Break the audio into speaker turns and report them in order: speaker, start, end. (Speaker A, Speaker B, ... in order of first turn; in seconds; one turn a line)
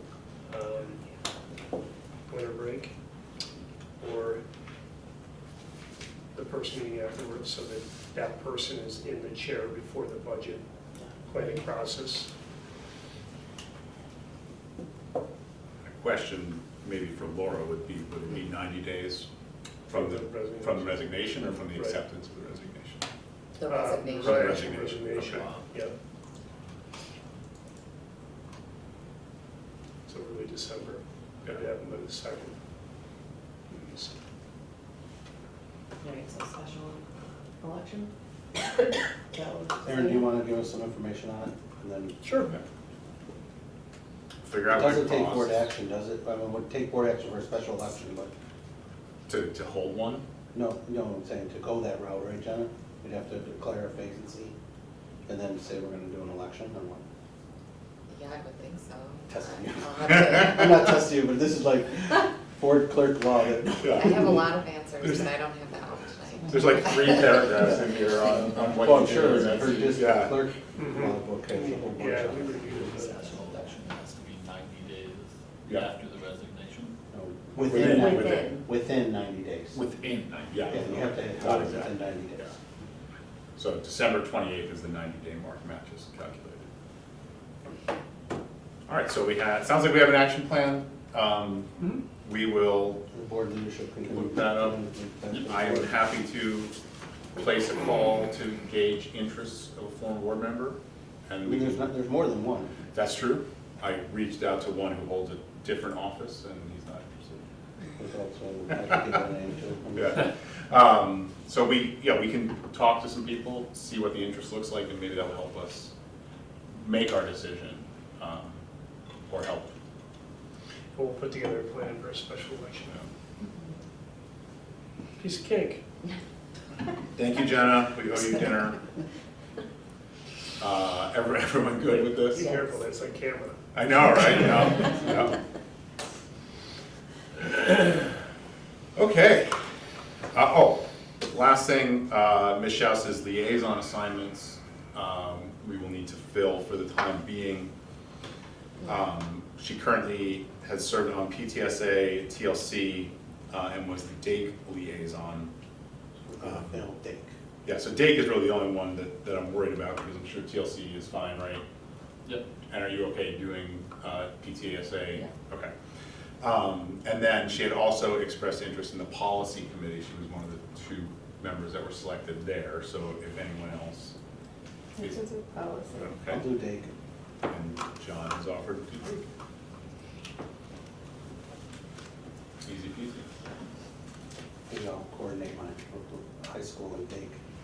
Speaker A: 0.5-1.0
Speaker A: 2.3-2.9
Speaker A: 4.0-4.4
Speaker A: 6.3-10.6
Speaker A: 11.3-12.3
Speaker B: 15.8-19.3
Speaker B: 19.9-23.0
Speaker A: 19.9-22.0
Speaker C: 23.6-24.7
Speaker A: 23.7-25.9
Speaker B: 24.2-25.4
Speaker D: 25.3-25.6
Speaker A: 30.1-32.6
Speaker A: 33.7-34.1
Speaker E: 36.0-37.0
Speaker E: 37.6-40.3
Speaker F: 39.8-42.2
Speaker A: 42.2-42.5
Speaker B: 44.4-45.7
Speaker F: 44.7-48.3
Speaker B: 49.3-50.2
Speaker F: 50.5-54.5
Speaker F: 55.3-57.0
Speaker C: 58.1-61.0
Speaker F: 59.3-64.3
Speaker B: 63.6-64.5
Speaker C: 63.9-67.7
Speaker B: 65.0-65.4
Speaker B: 66.5-70.4
Speaker F: 68.8-73.8
Speaker A: 70.8-73.3
Speaker D: 72.7-77.0
Speaker F: 77.1-79.8
Speaker B: 77.6-78.5
Speaker E: 77.8-78.6
Speaker D: 79.7-81.2
Speaker B: 80.5-82.5
Speaker F: 80.7-82.5
Speaker B: 83.6-86.7
Speaker B: 88.9-91.7
Speaker B: 92.2-93.0
Speaker F: 93.1-95.9
Speaker B: 94.1-94.8
Speaker B: 95.4-96.7
Speaker B: 97.3-100.8
Speaker B: 101.3-101.9
Speaker F: 101.5-102.7
Speaker B: 102.9-107.4
Speaker F: 108.0-110.2
Speaker B: 110.0-115.9
Speaker B: 116.7-118.6
Speaker B: 119.2-119.7
Speaker A: 121.0-123.0
Speaker A: 125.2-125.8
Speaker B: 127.2-128.8
Speaker B: 130.6-132.7
Speaker A: 131.9-133.6
Speaker B: 133.7-135.4
Speaker B: 137.4-138.1
Speaker B: 139.0-139.6
Speaker B: 140.3-147.7
Speaker B: 148.8-155.5
Speaker F: 156.3-157.3
Speaker B: 156.4-156.9
Speaker B: 157.7-161.6
Speaker B: 162.7-165.7
Speaker B: 166.4-174.1
Speaker E: 175.0-176.2
Speaker B: 175.0-175.3
Speaker B: 175.9-176.4
Speaker F: 176.3-176.9
Speaker B: 177.5-179.2
Speaker B: 182.6-183.3
Speaker F: 184.7-187.4